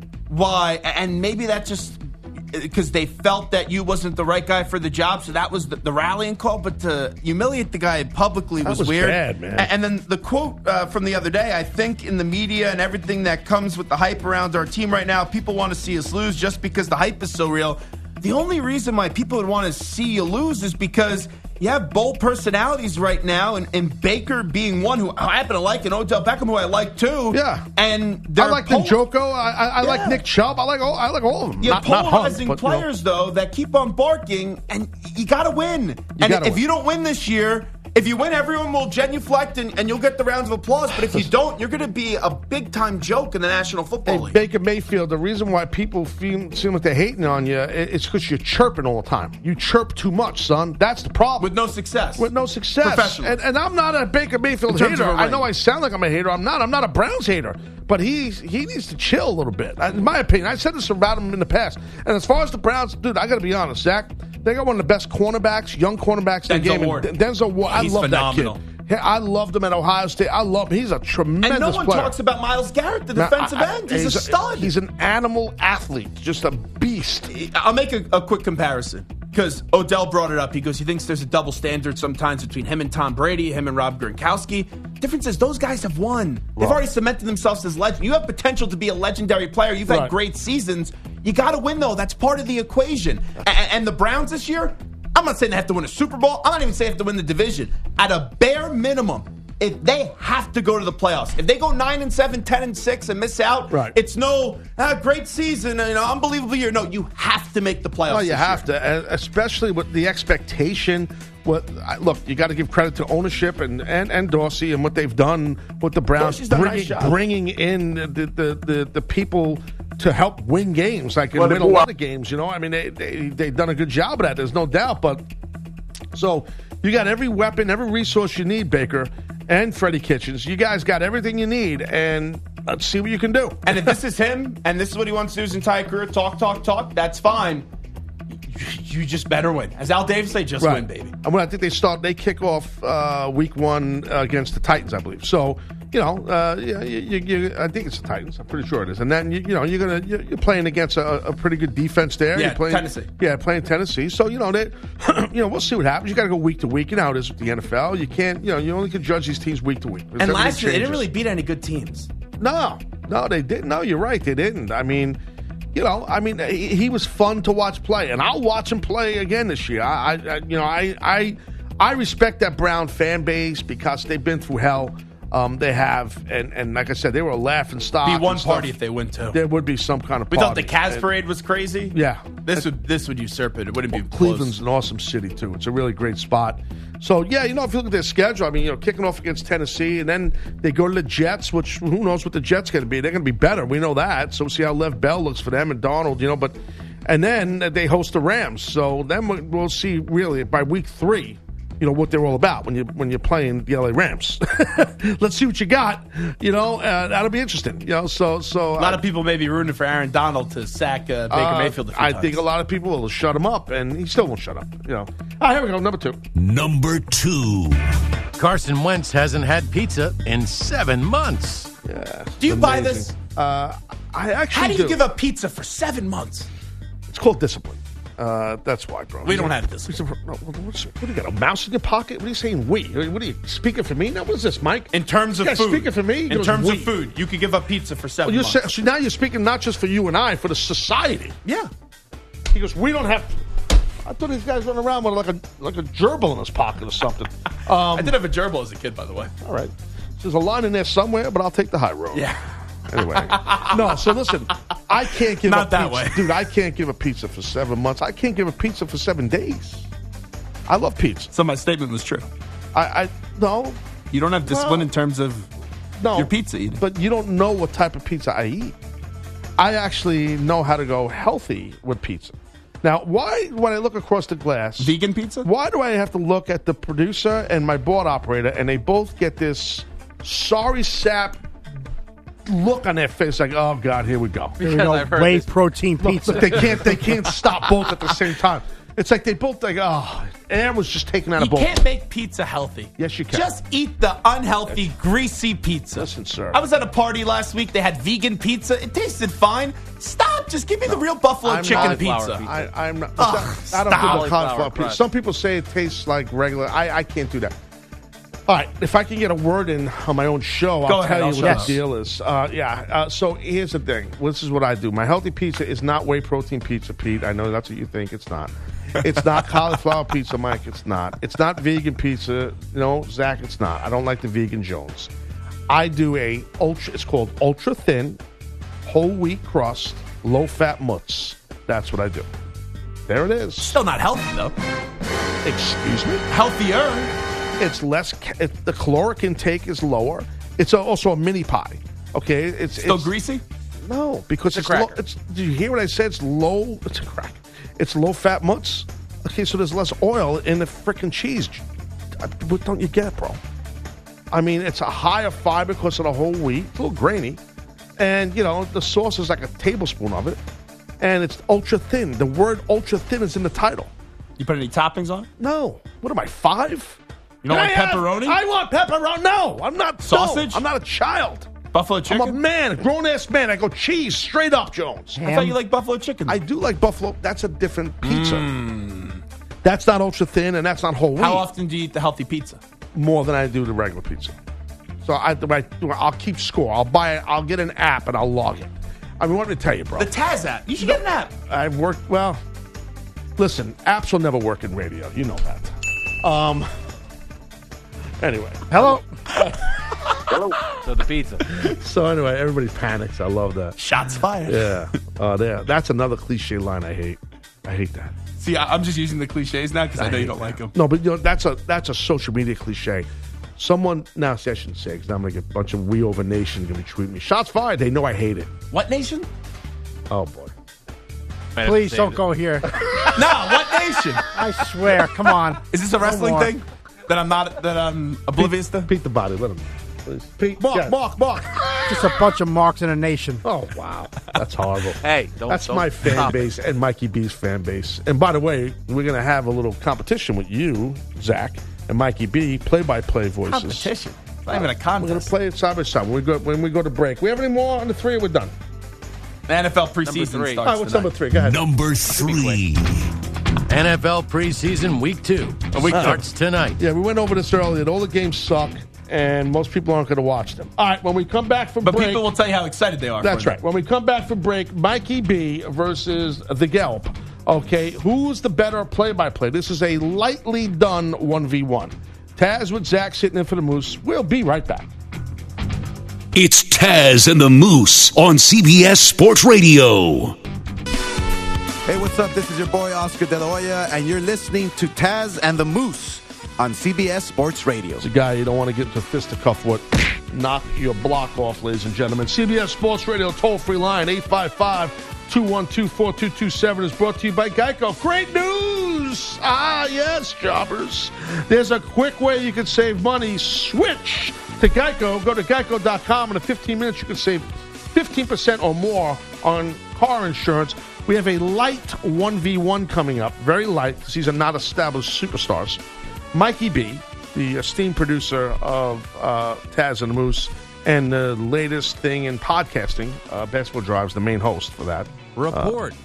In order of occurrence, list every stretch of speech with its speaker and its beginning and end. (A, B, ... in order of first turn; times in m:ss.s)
0:00.3-0:29.0 A
0:08.6-0:09.7 B
0:27.3-0:27.7 B
0:28.4-0:32.8 B
0:29.8-0:30.2 A
0:31.6-0:44.4 A
0:36.2-0:36.6 B
0:44.0-0:51.5 B
0:51.4-0:52.3 A
0:52.2-1:12.1 B
0:52.8-0:53.4 A
0:54.7-0:55.5 A
1:06.5-1:07.1 A
1:07.6-1:08.6 A
1:11.4-1:14.7 A
1:13.1-1:17.3 B
1:17.3-1:48.6 A
1:26.6-1:26.8 B
1:29.9-1:30.1 B
1:43.7-1:44.0 B
1:48.1-2:05.2 B
1:56.2-1:57.2 A
2:01.4-2:01.8 A
2:06.1-2:14.0 B
2:13.6-2:17.7 A
2:18.4-2:21.1 A
2:20.6-2:41.0 B
2:32.3-2:33.1 A
2:40.2-2:42.1 A
2:42.4-2:45.2 B
2:45.7-2:58.7 B
2:58.0-2:59.4 A
2:59.3-3:01.1 B
3:00.3-3:04.6 A
3:01.9-3:02.6 B
3:03.9-3:16.5 B
3:17.0-3:29.0 B
3:28.8-3:32.4 A
3:31.3-3:36.2 B
3:36.4-3:37.8 C
3:38.4-3:41.7 D
3:41.8-3:45.0 B
3:42.4-3:43.1 A
3:44.5-3:46.5 A
3:47.1-3:56.9 B
3:49.2-3:49.9 A
3:54.9-3:58.6 A
3:58.2-4:01.4 B
4:01.4-4:01.7 A
4:02.5-4:03.4 B
4:04.0-4:08.2 B
4:07.9-4:09.3 A
4:09.4-4:12.3 B
4:12.1-4:12.4 A
4:12.9-4:19.9 B
4:13.1-4:14.2 A
4:15.3-4:16.4 A
4:20.7-4:21.3 B
4:21.3-4:22.3 A
4:22.7-4:23.8 B
4:24.1-4:25.5 A
4:24.4-4:24.9 B
4:26.0-4:28.8 B
4:26.1-4:26.8 A
4:29.6-4:41.4 B
4:34.8-4:35.5 A
4:42.4-4:44.6 B
4:44.6-4:45.6 E
4:44.6-4:46.8 F
4:46.0-4:51.8 B
4:46.3-4:47.2 E
4:51.4-5:02.5 A
4:53.0-4:53.5 B
4:56.0-4:56.6 B
5:00.9-5:07.5 B
5:01.6-5:02.7 E
5:03.2-5:04.3 A
5:03.8-5:05.1 E
5:08.5-5:25.1 B
5:10.8-5:11.8 A
5:11.4-5:11.8 F
5:25.7-5:28.2 B
5:28.8-5:32.3 B
5:33.1-5:33.8 B
5:33.6-5:34.6 A
5:35.4-5:36.2 B
5:36.3-5:37.1 A
5:37.6-5:43.1 B
5:42.8-5:43.4 A
5:43.8-5:51.6 B
5:44.5-5:45.0 E
5:52.2-5:53.4 B
5:54.3-5:57.4 B
5:58.0-6:00.4 B
6:01.0-6:03.9 B
6:04.4-6:05.3 A
6:05.4-6:11.5 B
6:07.4-6:08.4 A
6:10.0-6:10.6 A
6:11.7-6:12.4 A
6:12.1-6:15.2 B
6:15.2-6:15.5 F
6:15.2-6:16.4 A
6:16.3-6:18.5 B
6:18.0-6:19.2 A
6:19.6-6:21.5 B
6:21.2-6:22.6 A
6:22.9-6:24.3 B
6:25.0-6:30.1 B
6:30.0-6:31.3 A
6:30.8-6:32.4 B
6:33.4-6:36.7 B
6:38.2-6:39.7 B
6:38.7-6:39.0 F
6:40.8-6:41.5 E
6:41.5-6:43.8 B
6:43.8-6:44.8 A
6:44.4-6:48.1 B
6:48.4-6:50.7 A
6:50.0-6:53.1 B
6:53.6-6:58.5 B
6:58.7-6:59.3 A
7:00.1-7:00.5 B
7:01.6-7:02.2 E
7:01.6-7:02.9 F
7:02.8-7:03.2 B
7:03.1-7:04.2 A
7:04.3-7:06.5 F
7:05.7-7:08.9 A
7:08.4-7:11.7 B
7:10.6-7:11.0 A
7:11.9-7:13.4 F
7:13.4-7:23.9 B
7:15.0-7:16.5 E
7:23.5-7:25.3 A
7:24.5-7:28.5 B
7:29.5-7:31.1 A
7:30.0-7:30.7 E
7:30.6-7:31.6 B
7:31.3-7:33.1 C
7:32.2-7:32.6 E
7:33.7-7:36.8 D
7:35.7-7:36.2 A
7:35.9-7:36.2 B
7:36.8-7:42.2 B
7:41.8-7:43.6 A
7:43.2-7:54.9 B
7:56.3-8:00.3 C
8:01.9-8:08.0 G
8:08.0-8:35.8 B
8:36.3-8:45.8 B
8:45.4-8:45.9 E